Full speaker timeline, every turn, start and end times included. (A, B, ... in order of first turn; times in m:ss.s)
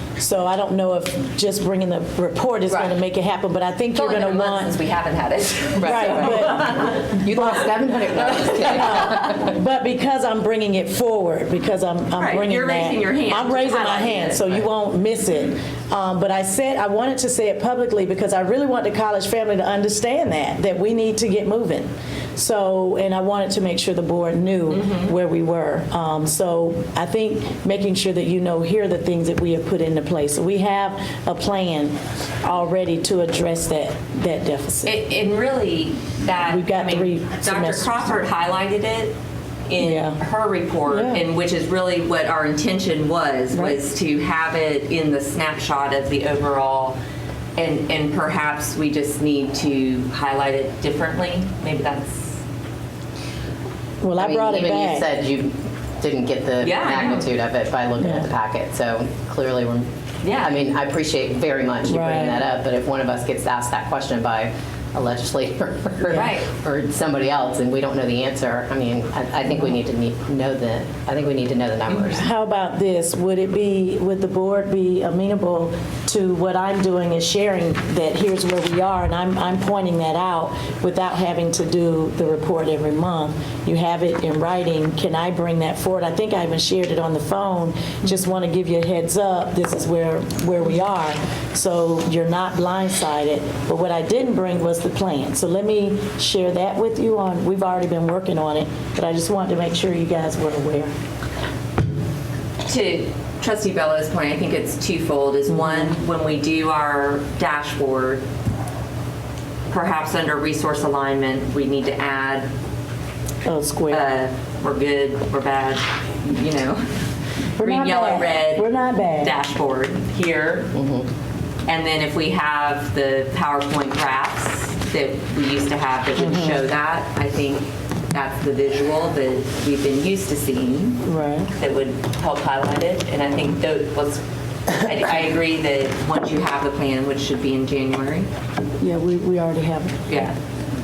0:00.2-0:04.7 A
0:03.9-0:07.0 B
0:05.8-0:09.5 C
0:05.8-0:07.7 A
0:08.3-0:09.2 B
0:08.7-0:34.9 A
0:12.2-0:14.6 B
0:24.7-0:25.1 B
0:34.8-0:39.1 B
0:36.5-0:38.1 A
0:39.7-0:47.0 B
0:39.8-0:40.2 A
0:40.8-0:41.2 A
0:43.5-0:43.8 A
0:47.6-0:52.4 B
0:54.0-0:55.1 A
0:54.2-1:12.2 C
0:56.6-0:57.3 B
0:58.0-0:58.3 A
1:00.2-1:00.5 B
1:01.9-1:02.4 A
1:06.1-1:06.5 B
1:12.1-1:40.9 A
1:42.6-1:48.2 B
1:45.5-1:45.9 A
1:49.7-1:52.5 B
1:53.4-1:54.0 A
1:53.9-1:56.8 B
1:57.6-1:58.6 B
1:57.6-1:59.3 A
1:59.2-2:00.7 B
2:00.7-2:01.1 C
2:01.6-2:11.0 B
2:06.2-2:06.6 A
2:11.0-2:11.5 A
2:11.5-2:18.3 B
2:18.8-2:20.2 A
2:20.1-2:20.4 B